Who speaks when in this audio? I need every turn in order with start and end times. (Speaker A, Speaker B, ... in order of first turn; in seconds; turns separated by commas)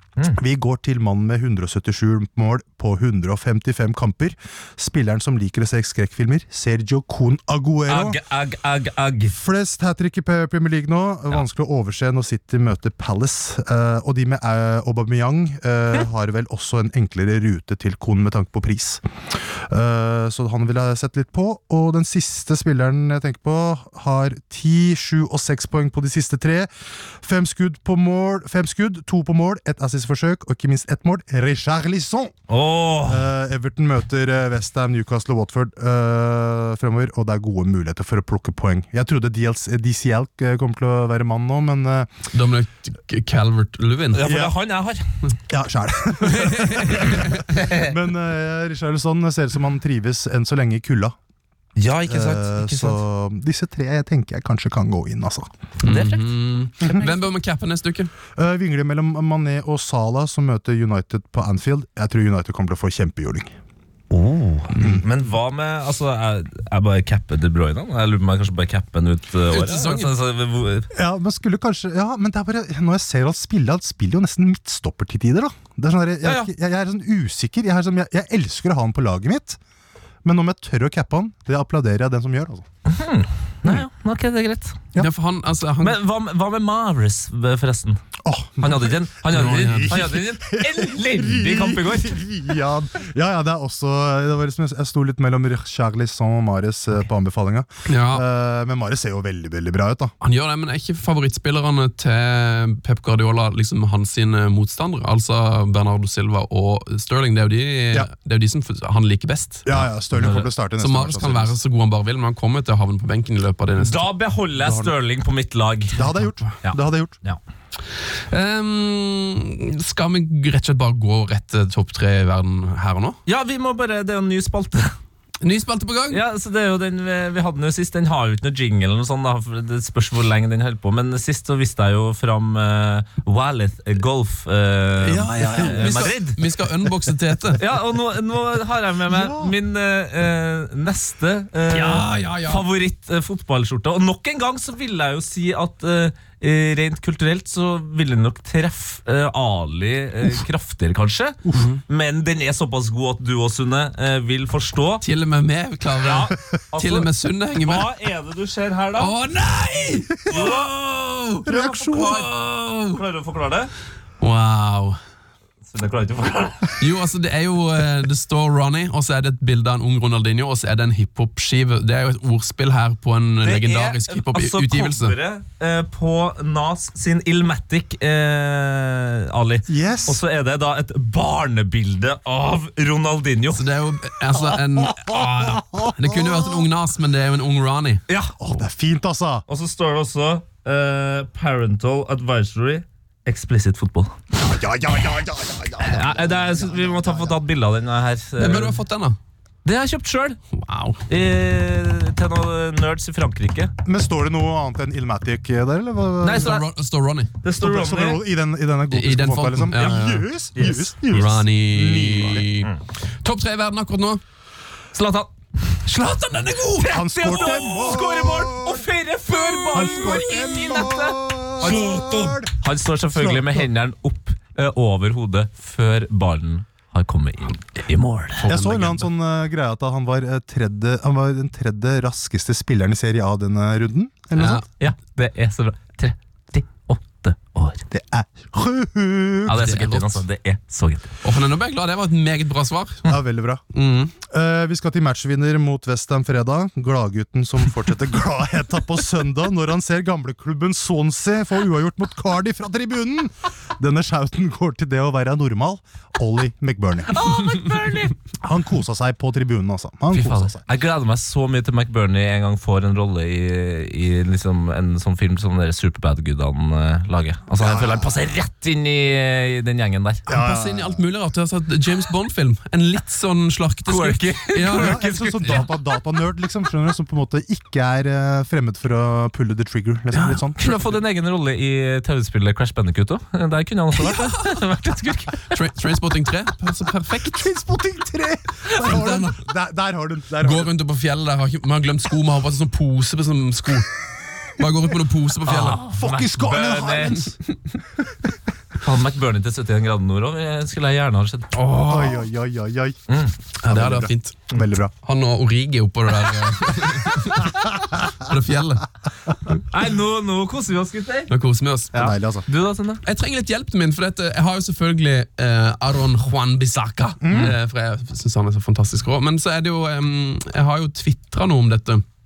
Speaker A: 0.3-8.2, Speaker B: 7.9-9.4, Speaker A: 9.3-19.0, Speaker A: 19.7-26.7, Speaker A: 27.2-32.3, Speaker B: 32.5-33.3, Speaker A: 33.0-42.1, Speaker C: 42.3-44.2, Speaker B: 44.1-45.0, Speaker A: 44.2-44.5, Speaker A: 45.5-51.1, Speaker C: 46.3-47.4, Speaker B: 46.8-47.9, Speaker B: 51.8-53.0, Speaker A: 52.1-55.5, Speaker B: 55.8-57.2, Speaker C: 55.8-58.1, Speaker A: 56.8-57.1, Speaker A: 58.4-63.5, Speaker B: 64.1-70.9, Speaker C: 69.5-70.1, Speaker A: 70.9-79.6, Speaker B: 76.2-76.5, Speaker A: 80.2-82.7, Speaker B: 82.9-84.8, Speaker C: 85.0-86.0, Speaker B: 85.8-88.0, Speaker A: 88.2-100.1, Speaker B: 88.6-92.2, Speaker C: 89.3-90.1, Speaker C: 97.9-98.2, Speaker C: 100.2-109.8, Speaker A: 109.7-111.5, Speaker C: 110.3-114.1, Speaker B: 113.8-116.0, Speaker A: 114.6-115.0, Speaker A: 116.0-117.2, Speaker B: 116.6-117.4, Speaker C: 118.3-123.2, Speaker B: 123.3-125.0, Speaker C: 125.4-126.2, Speaker B: 126.1-136.4, Speaker C: 135.0-137.6, Speaker B: 137.6-155.0, Speaker A: 139.1-139.5, Speaker C: 141.7-142.6, Speaker C: 151.5-151.8, Speaker C: 155.0-157.9, Speaker B: 156.0-159.2, Speaker C: 159.0-163.0, Speaker B: 160.3-160.8, Speaker B: 161.4-163.7, Speaker A: 161.5-162.1, Speaker C: 164.2-164.9, Speaker B: 165.7-166.8, Speaker C: 166.8-175.2, Speaker B: 173.4-183.6, Speaker A: 179.7-180.2, Speaker C: 183.5-188.0, Speaker A: 185.1-186.6, Speaker B: 188.1-188.4, Speaker A: 188.4-189.4, Speaker B: 189.5-194.1, Speaker A: 194.3-197.4, Speaker B: 195.8-198.8, Speaker C: 198.4-199.2, Speaker B: 199.7-200.4, Speaker C: 200.5-201.0, Speaker B: 201.1-203.7, Speaker A: 203.8-206.6, Speaker B: 206.2-206.6, Speaker C: 206.3-207.3, Speaker B: 207.4-208.2, Speaker A: 207.6-212.4, Speaker C: 208.9-210.3, Speaker B: 210.6-212.8, Speaker C: 211.1-214.2, Speaker B: 214.9-215.8, Speaker C: 215.9-217.0, Speaker B: 216.8-228.5, Speaker A: 216.9-218.9, Speaker A: 219.7-222.6, Speaker A: 223.1-223.7, Speaker C: 228.4-229.1, Speaker A: 228.5-234.6, Speaker C: 234.4-234.6, Speaker B: 234.8-237.8, Speaker A: 237.9-239.6, Speaker B: 239.5-241.1, Speaker C: 239.5-240.2, Speaker C: 241.2-243.2, Speaker A: 243.1-243.6, Speaker C: 243.7-244.2, Speaker A: 244.3-257.2, Speaker B: 257.1-258.2, Speaker A: 258.4-260.6, Speaker B: 260.1-270.3, Speaker A: 267.6-268.2, Speaker A: 270.3-271.0, Speaker C: 270.3-275.7, Speaker B: 273.9-275.7, Speaker A: 274.7-280.9, Speaker C: 280.1-280.4, Speaker B: 280.6-285.6, Speaker C: 285.5-287.5, Speaker A: 287.3-290.7, Speaker C: 288.8-289.4, Speaker C: 290.4-293.9, Speaker C: 294.6-295.8, Speaker B: 295.5-297.3, Speaker A: 295.9-297.4, Speaker B: 298.8-301.5, Speaker C: 301.6-302.2, Speaker A: 301.8-303.0, Speaker B: 303.1-303.4, Speaker C: 303.6-304.4, Speaker A: 303.6-304.9, Speaker C: 305.0-308.9, Speaker B: 309.7-311.3, Speaker C: 311.3-312.2, Speaker A: 311.9-312.5, Speaker B: 312.5-313.0, Speaker C: 313.0-322.0, Speaker A: 317.2-317.6, Speaker B: 317.3-317.6